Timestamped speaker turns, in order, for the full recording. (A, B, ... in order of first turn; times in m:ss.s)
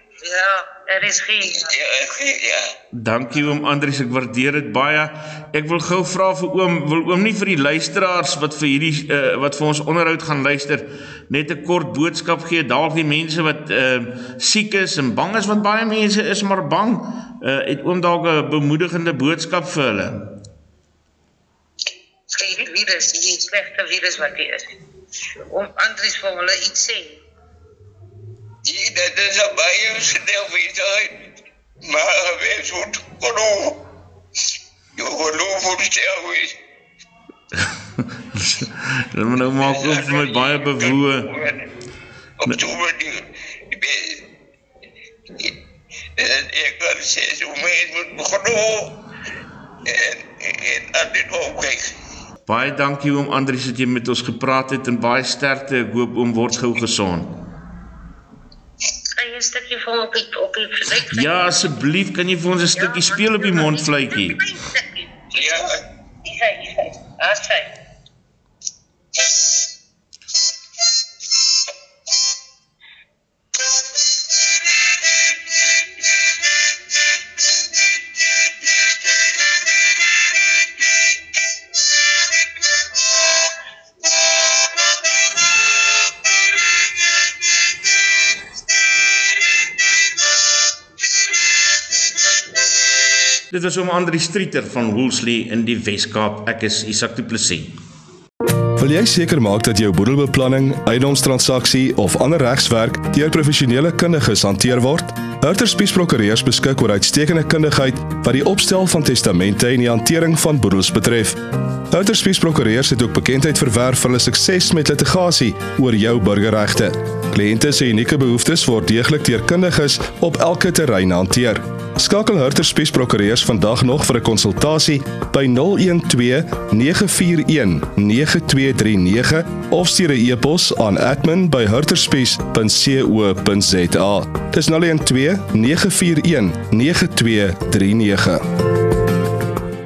0:00.2-0:01.7 A
0:01.4-0:02.7 B
0:03.0-0:20.2 C
0:22.3-0:24.7 A
0:25.5-0:27.2 A
0:28.6-0:31.1 B
0:31.8-0:33.8 B
0:35.0-0:36.5 B
0:38.3-0:41.3 C
0:39.6-0:41.6 B
0:42.4-0:43.2 B
0:43.7-0:44.2 B
0:46.2-0:48.8 B
0:49.8-0:51.8 B
0:52.5-0:57.3 C
0:59.2-1:01.6 A
1:01.1-1:04.4 C
1:02.8-1:05.7 A
1:05.4-1:05.7 B
1:06.2-1:07.7 A
1:33.5-1:37.7 C
1:38.8-1:51.4 D
1:51.9-2:18.4 D